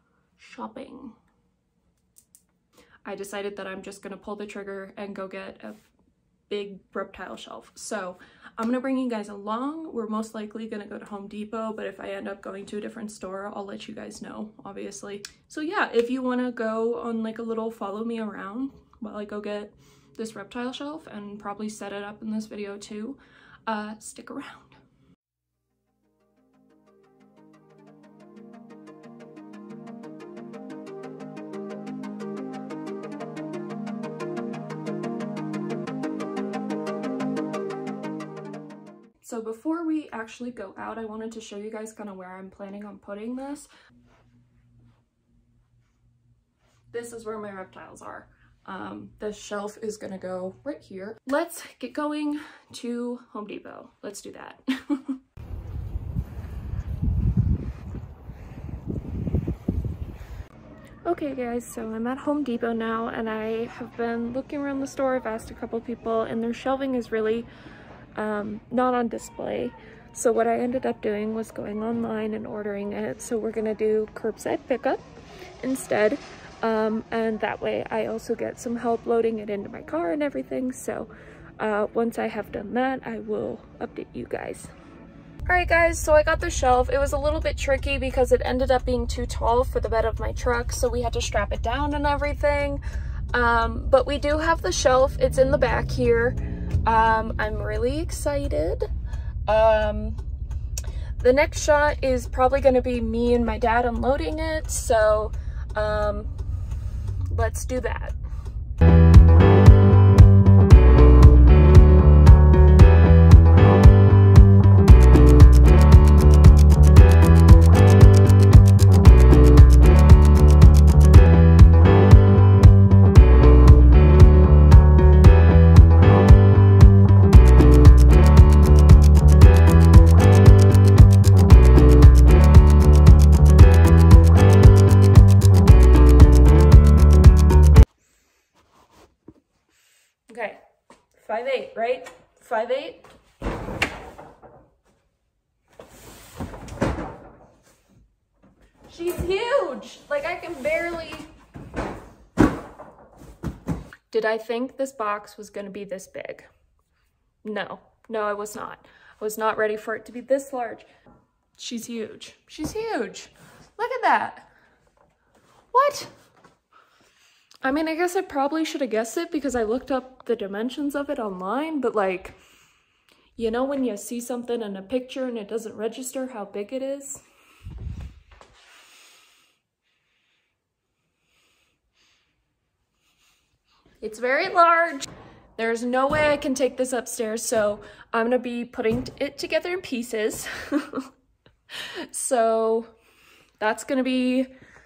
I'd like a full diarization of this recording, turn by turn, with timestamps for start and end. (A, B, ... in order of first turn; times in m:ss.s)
0:00.4-0:01.2 A
0:03.0-0:05.8 A
0:06.5-0:24.8 A
0:39.2-0:43.7 A
0:46.9-0:55.2 A
1:01.0-1:07.5 A
1:08.2-1:15.0 A
1:15.6-1:24.7 A
1:25.4-1:32.8 A
1:33.3-1:38.9 A
1:39.5-1:40.2 A
1:41.2-1:46.3 A
1:47.3-1:48.2 A
2:20.3-2:20.6 A
2:21.1-2:23.1 A
2:28.9-2:31.3 A
2:34.1-2:36.5 A
2:37.4-2:40.9 A
2:41.6-2:44.5 A
2:45.7-2:46.1 A
2:47.6-2:52.4 A
2:53.4-2:57.2 A
3:04.0-3:11.1 A
3:11.7-3:12.9 A
3:13.6-3:14.5 A